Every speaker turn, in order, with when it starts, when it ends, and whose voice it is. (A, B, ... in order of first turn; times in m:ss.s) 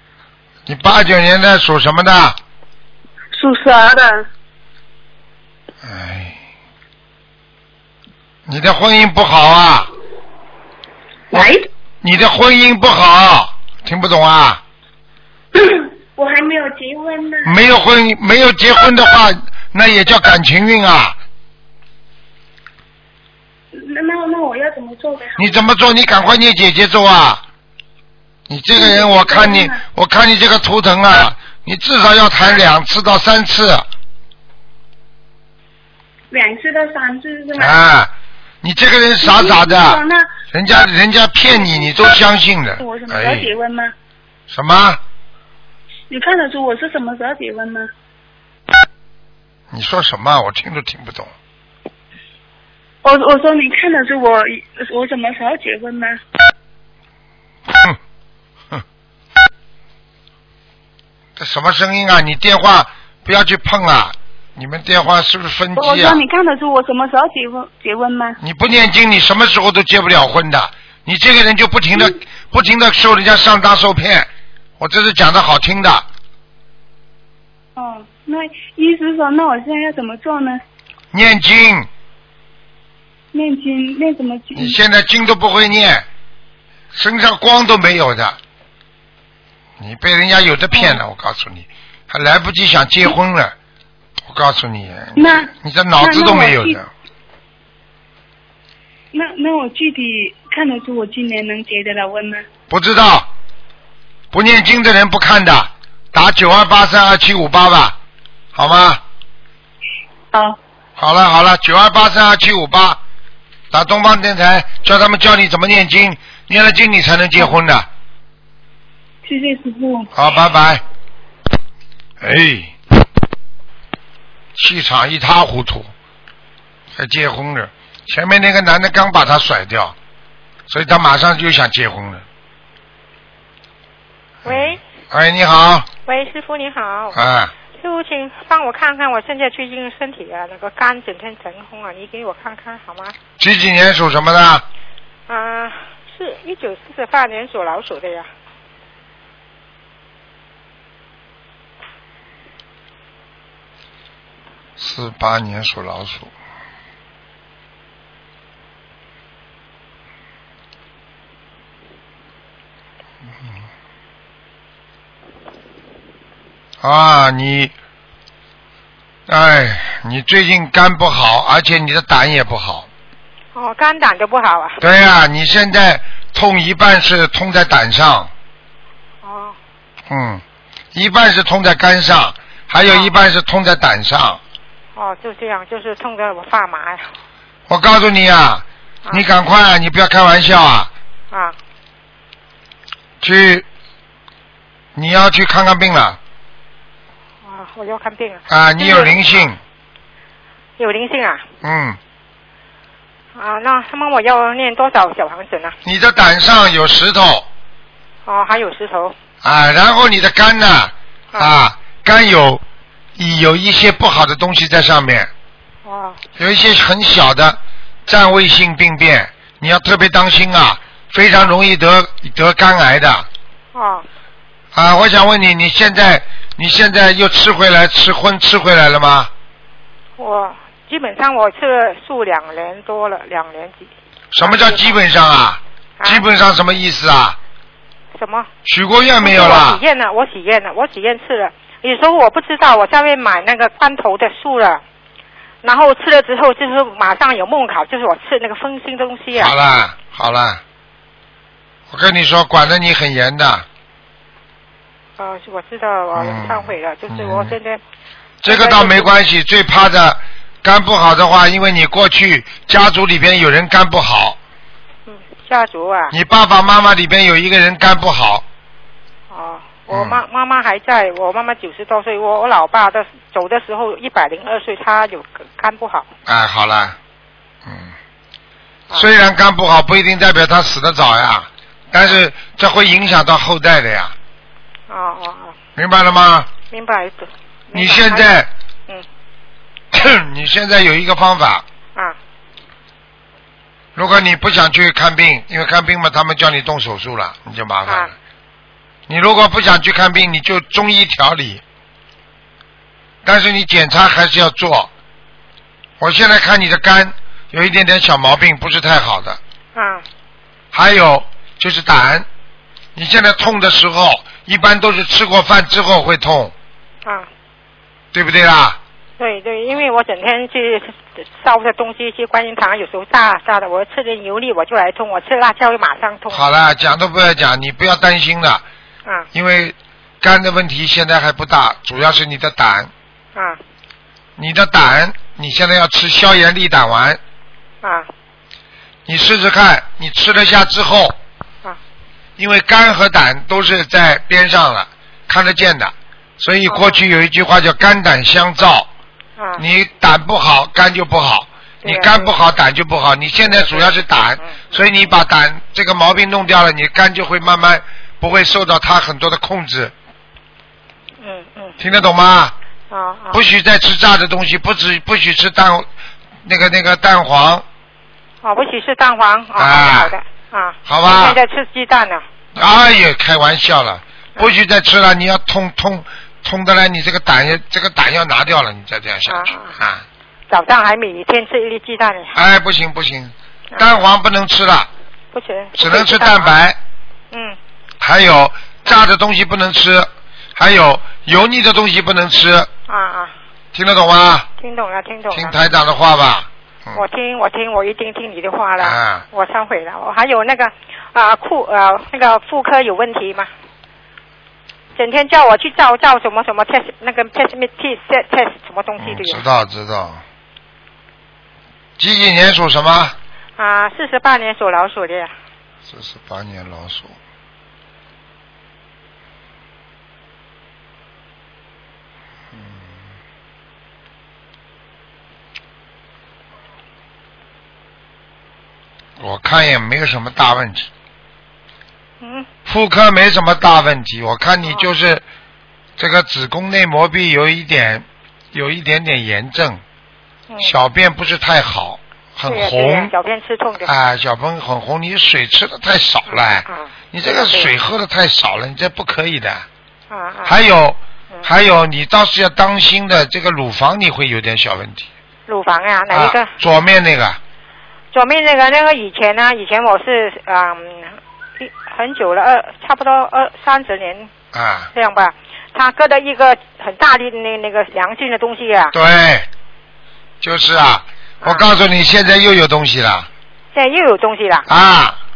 0:00.7-0:02.4 A
0:03.3-0:04.3 B
0:05.8-0:06.4 A
0:08.5-0:09.9 A
0:11.3-0:11.7 B
0:12.0-0:14.6 A
0:15.6-0:17.6 B
0:17.4-0:21.2 A
0:23.7-0:25.6 B
0:25.4-0:27.4 A
0:28.5-0:33.9 A
0:28.8-0:29.8 B
0:36.3-0:37.8 B
0:37.6-0:38.1 A
0:38.6-0:43.5 A
0:39.2-0:40.3 B
0:42.8-0:43.9 B
0:44.5-0:45.0 A
0:46.1-0:47.9 B
0:49.7-0:51.3 A
0:53.0-0:56.2 B
0:57.7-0:58.0 A
1:01.4-1:06.2 A
1:05.8-1:08.4 B
1:08.4-1:16.1 A
1:17.8-1:20.6 B
1:21.1-1:21.9 A
1:23.3-1:24.8 B
1:24.6-1:26.1 A
1:26.9-1:28.4 A
1:29.8-1:33.5 A
1:34.3-1:36.9 A
1:35.2-1:36.8 B
1:39.1-1:42.4 B
1:42.7-1:43.3 A
1:44.3-1:48.0 A
1:48.6-1:49.0 A
1:50.3-1:50.6 B
1:51.0-1:53.0 A
1:53.7-1:57.9 A
1:59.2-2:00.1 B
2:00.1-2:00.8 A
2:02.2-2:02.8 A
2:04.5-2:05.9 A
2:07.0-2:10.0 A
2:10.7-2:12.2 A
2:14.4-2:14.8 C
2:14.5-2:15.9 A
2:16.1-2:17.2 C
2:17.2-2:17.5 A
2:17.8-2:23.2 C
2:23.4-2:24.6 A
2:25.3-2:28.3 C
2:34.8-2:36.3 A
2:46.8-2:47.7 A
2:49.3-2:52.9 A
2:53.6-2:54.8 C
2:54.8-2:58.3 A
2:59.2-2:59.6 C
3:00.1-3:00.4 A
3:00.9-3:04.4 A
3:02.8-3:03.1 C
3:05.0-3:07.1 C
3:07.7-3:10.9 A
3:11.3-3:11.6 C
3:13.2-3:13.7 A
3:15.0-3:16.2 A
3:17.4-3:19.5 C
3:18.5-3:19.6 A
3:20.8-3:21.4 C
3:21.6-3:22.0 A
3:23.4-3:25.8 C
3:25.8-3:27.5 A
3:28.3-3:29.2 C
3:29.4-3:32.6 A
3:33.2-3:35.3 A
3:35.8-3:36.2 C
3:36.4-3:43.3 A
3:43.7-3:44.1 C
3:44.7-3:49.3 A
3:50.2-3:55.0 C
3:54.3-3:57.4 A
3:56.0-3:56.2 C
3:58.1-3:58.5 C
3:58.6-3:59.8 A
3:59.2-4:04.8 C
4:05.6-4:09.6 C
4:09.4-4:10.6 A
4:11.9-4:13.7 A
4:15.2-4:17.8 C
4:16.2-4:17.5 A
4:18.4-4:24.4 A
4:18.4-4:19.2 C
4:25.1-4:26.2 C
4:26.1-4:28.4 A
4:29.3-4:36.1 C
4:29.9-4:30.2 A
4:36.3-4:37.0 A
4:37.7-4:37.9 A
4:38.9-4:44.2 A
4:44.9-4:45.6 C
4:45.8-4:46.5 A
4:46.7-4:48.3 C
4:47.7-4:48.5 A
4:49.9-4:51.6 A
4:54.0-4:58.1 A
4:57.9-4:58.1 C
4:59.1-5:01.6 A
5:03.2-5:04.9 A
5:06.0-5:09.4 A
5:09.8-5:10.0 C
5:10.7-5:12.3 A
5:13.0-5:16.5 A
5:18.1-5:18.8 A
5:19.2-5:26.4 C
5:26.3-5:28.6 A
5:29.3-5:32.9 A
5:33.4-5:33.6 C
5:34.4-5:37.2 A
5:37.8-5:38.1 C
5:39.1-5:41.2 A
5:42.4-5:48.9 A
5:46.7-5:47.0 C
5:49.4-5:49.6 C
5:49.6-5:59.9 A
5:51.8-5:52.3 C
5:53.4-5:54.6 C
6:01.2-6:01.8 C
6:01.8-6:02.5 A
6:02.9-6:03.4 C
6:03.3-6:05.9 A
6:06.4-6:07.6 A
6:08.4-6:12.2 C
6:09.6-6:10.1 A
6:10.9-6:11.4 A
6:12.6-6:20.0 A
6:19.3-6:19.8 C
6:20.5-6:22.4 C
6:22.4-6:24.9 A
6:25.3-6:26.5 C
6:25.8-6:26.8 A
6:27.3-6:27.6 C
6:28.0-6:32.7 A
6:32.9-6:33.3 C
6:33.7-6:34.5 A
6:34.6-6:35.6 C
6:35.3-6:37.0 A
6:36.9-6:43.5 C
6:38.8-6:39.2 A
6:45.0-6:49.4 C
6:49.0-6:50.2 A
6:52.0-6:53.2 A
6:53.6-6:55.3 C
6:55.9-6:57.2 A
7:02.5-7:02.8 A
7:09.2-7:10.9 A
7:12.2-7:12.5 C
7:12.7-7:15.2 A
7:16.0-7:19.8 A
7:20.6-7:23.1 A
7:22.5-7:23.9 C
7:23.9-7:29.7 A
7:26.3-7:27.8 C
7:30.1-7:30.6 C
7:30.5-7:35.1 A
7:35.5-7:36.6 C
7:36.1-7:37.4 A
7:38.1-7:44.3 C
7:44.5-7:44.9 A
7:44.9-7:48.9 C
7:48.9-7:49.5 A
7:50.4-7:53.3 A
7:53.7-7:54.7 C
7:54.7-7:55.2 A